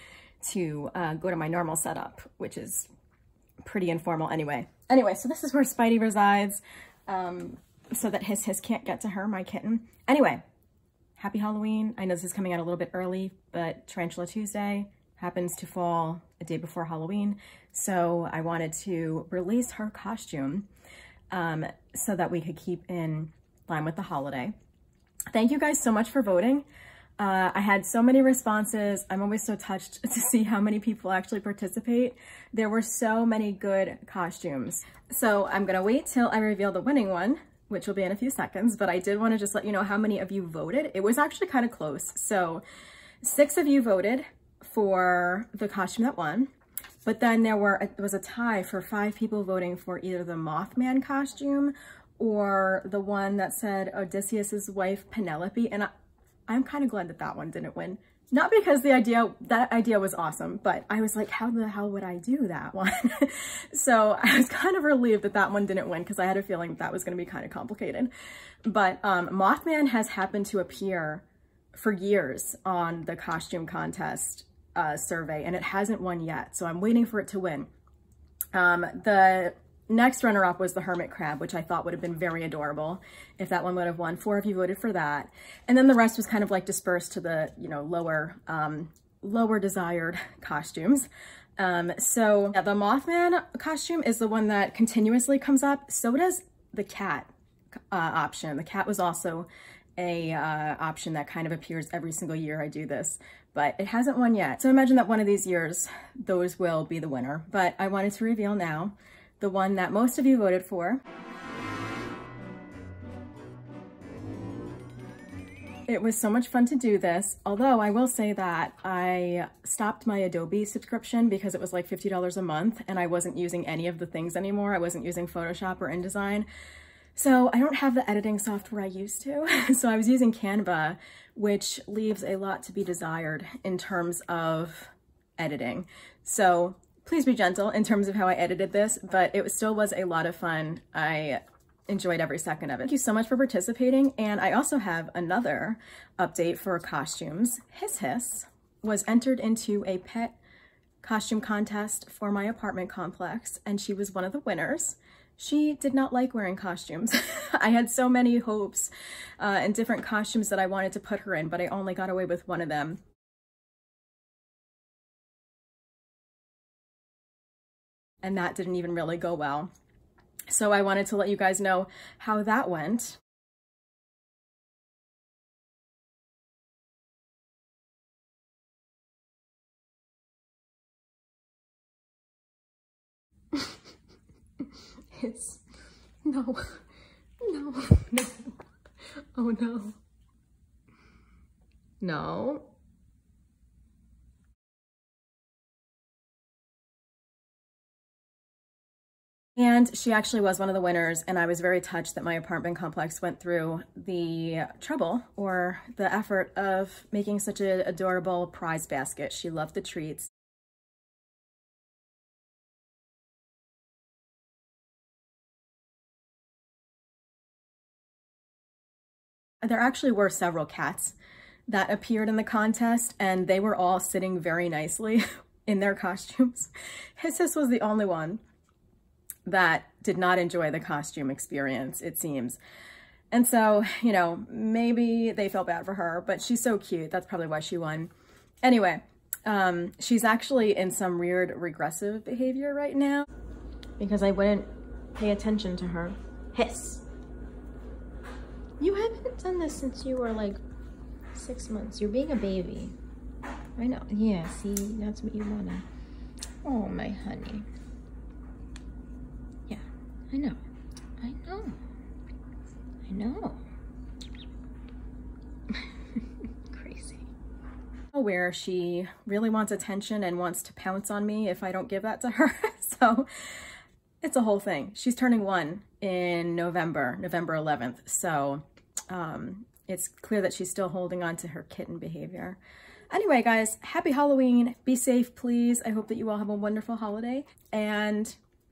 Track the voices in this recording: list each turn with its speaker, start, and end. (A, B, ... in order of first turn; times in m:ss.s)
0:00.4-0:02.9 A
0:03.6-0:10.4 A
0:11.2-0:20.7 A
0:21.3-0:24.5 A
0:25.3-0:26.6 A
0:27.2-0:42.6 A
0:43.2-0:46.5 A
0:47.0-0:55.9 A
0:56.5-1:08.1 A
1:08.6-1:17.7 A
1:18.5-1:37.3 A
1:37.9-1:51.0 A
1:55.9-2:06.5 A
2:07.2-2:30.4 A
2:31.0-2:43.0 A
2:48.2-2:49.7 A
2:50.5-2:53.2 A
3:05.1-3:05.6 A
3:06.2-3:06.8 A
3:07.4-3:08.6 A
3:09.3-3:10.0 A
3:12.0-3:12.7 A
3:19.6-3:30.3 A
3:39.6-3:41.2 A
3:41.7-3:48.4 A
3:49.5-3:52.6 A
3:53.3-3:58.1 A
3:58.6-4:03.2 A
4:04.0-4:07.0 A
4:08.8-4:10.6 A
4:11.3-4:12.9 A
4:13.8-4:15.9 A
4:16.6-4:17.7 A
4:19.7-4:20.6 A
4:21.2-4:21.8 A
4:23.1-4:23.6 A
4:26.7-4:27.3 A
4:28.1-4:33.3 A
4:34.2-4:42.6 A
4:43.1-4:48.4 A